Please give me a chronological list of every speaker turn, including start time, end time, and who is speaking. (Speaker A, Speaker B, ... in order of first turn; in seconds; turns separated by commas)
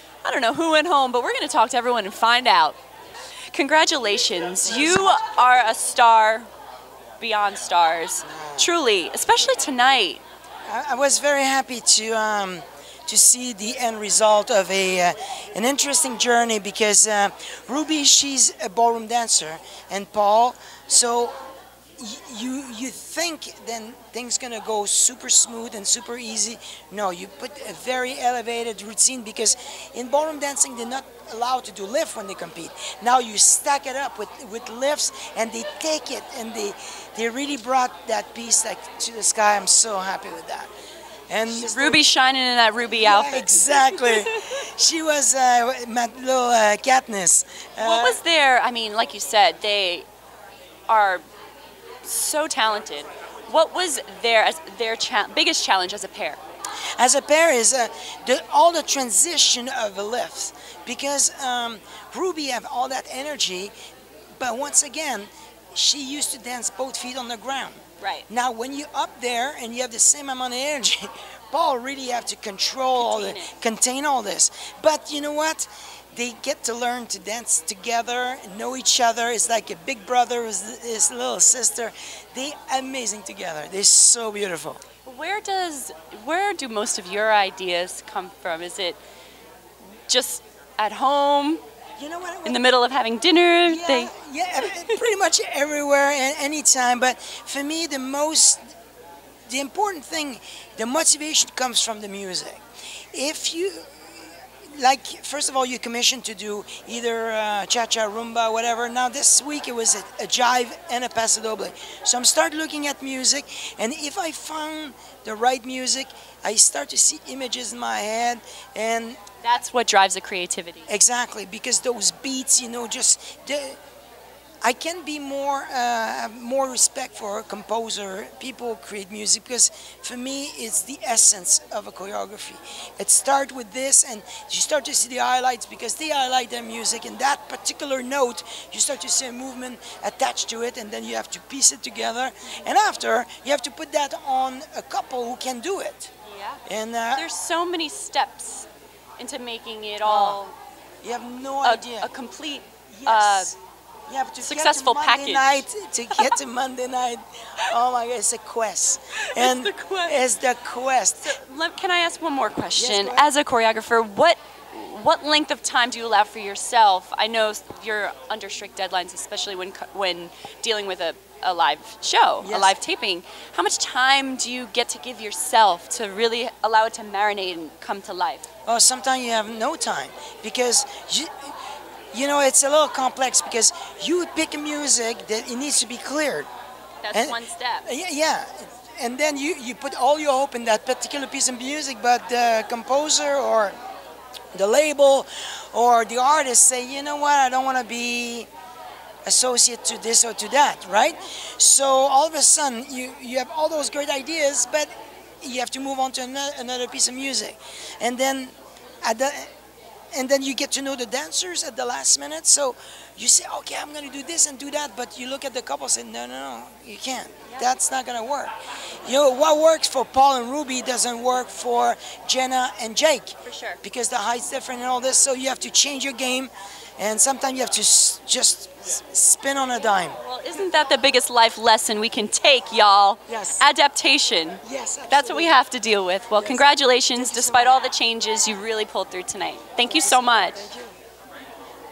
Speaker A: 0.2-2.8, Speaker A: 3.5-6.5, Speaker B: 4.7-5.1, Speaker A: 7.2-10.2, Speaker B: 8.2-8.7, Speaker B: 10.7-21.4, Speaker B: 22.0-40.7, Speaker B: 41.3-42.1, Speaker A: 41.5-44.5, Speaker B: 42.9-48.2, Speaker A: 47.8-50.0, Speaker A: 50.9-51.2, Speaker A: 52.0-56.4, Speaker B: 57.0-63.7, Speaker B: 64.4-84.8, Speaker A: 68.0-68.2, Speaker A: 73.0-73.5, Speaker A: 85.0-89.0, Speaker A: 90.1-91.6, Speaker B: 92.0-92.6, Speaker A: 92.4-94.1, Speaker B: 93.7-98.6, Speaker A: 94.6-95.0, Speaker B: 99.5-102.6, Speaker B: 103.1-119.2, Speaker A: 119.4-120.9, Speaker B: 120.9-123.8, Speaker B: 124.6-146.1, Speaker A: 146.2-146.6, Speaker B: 146.7-147.3, Speaker A: 147.1-148.7, Speaker A: 149.2-150.6, Speaker B: 150.0-150.4, Speaker B: 151.0-152.1, Speaker A: 151.6-153.5, Speaker B: 152.9-153.6, Speaker B: 154.1-161.4, Speaker A: 154.4-156.3, Speaker A: 159.2-160.2, Speaker A: 161.2-178.4, Speaker B: 162.7-163.3, Speaker B: 172.4-172.7, Speaker B: 178.7-181.5, Speaker B: 182.1-186.5, Speaker A: 187.0-187.9, Speaker B: 187.1-193.7, Speaker B: 194.5-198.5, Speaker B: 199.2-204.9, Speaker B: 205.4-209.5, Speaker B: 210.1-230.2, Speaker A: 223.4-223.8, Speaker A: 230.1-240.6, Speaker B: 233.3-233.7, Speaker B: 234.6-235.6, Speaker B: 236.3-237.8, Speaker B: 239.8-240.9